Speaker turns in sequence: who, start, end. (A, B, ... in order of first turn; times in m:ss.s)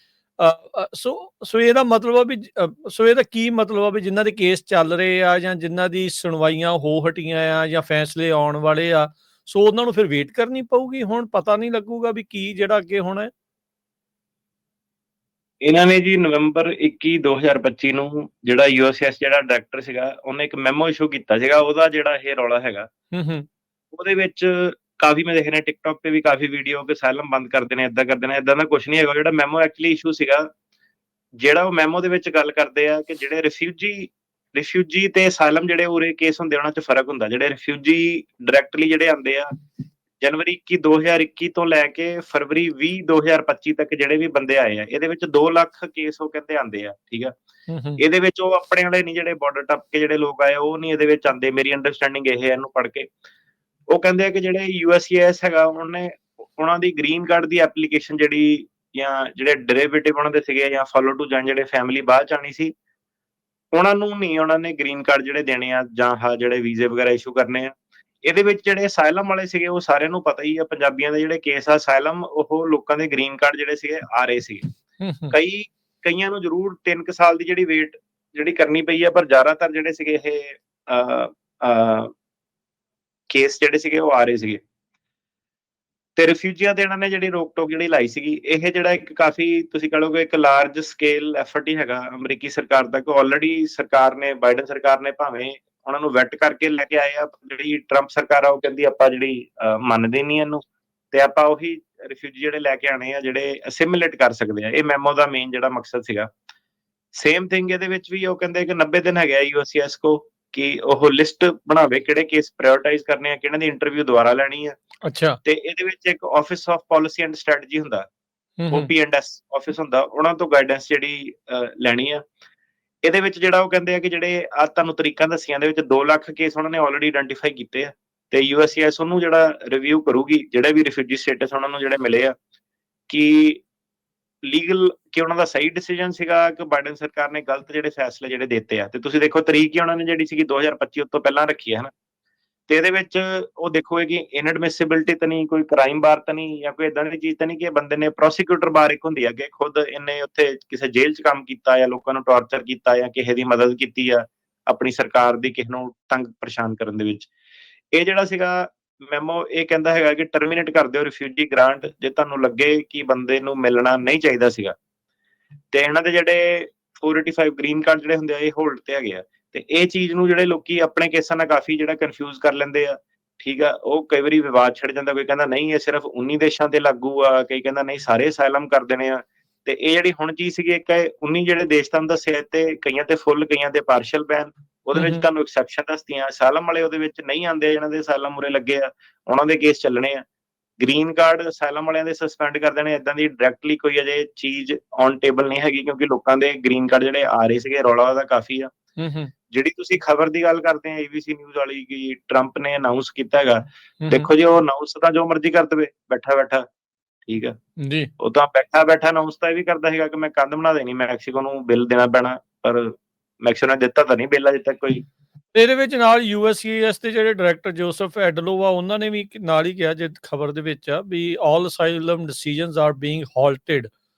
0:00.4-0:13.3 A
0:15.6-0:22.9 B
0:23.1-0:23.5 A
0:23.9-0:30.5 B
0:31.4-0:39.5 B
0:40.2-0:47.3 B
0:47.7-0:48.0 A
0:48.0-0:53.1 B
0:53.9-1:02.7 B
1:03.7-1:14.7 B
1:15.0-1:15.3 A
1:15.3-1:22.1 B
1:23.3-1:24.6 B
1:26.2-1:46.3 B
1:47.2-1:54.8 B
1:55.0-1:55.4 A
1:55.4-1:58.1 B
1:58.6-1:58.9 A
1:58.7-2:02.2 B
2:03.0-2:12.3 B
2:13.1-2:13.6 B
2:14.4-2:21.9 B
2:22.7-2:37.3 B
2:37.9-2:44.8 B
2:45.7-3:10.2 B
3:04.9-3:05.2 A
3:10.8-3:18.7 B
3:19.0-3:19.3 A
3:19.5-3:26.6 B
3:24.0-3:24.3 A
3:27.3-3:27.6 B
3:27.8-3:28.1 A
3:28.2-3:35.0 B
3:35.5-3:43.9 A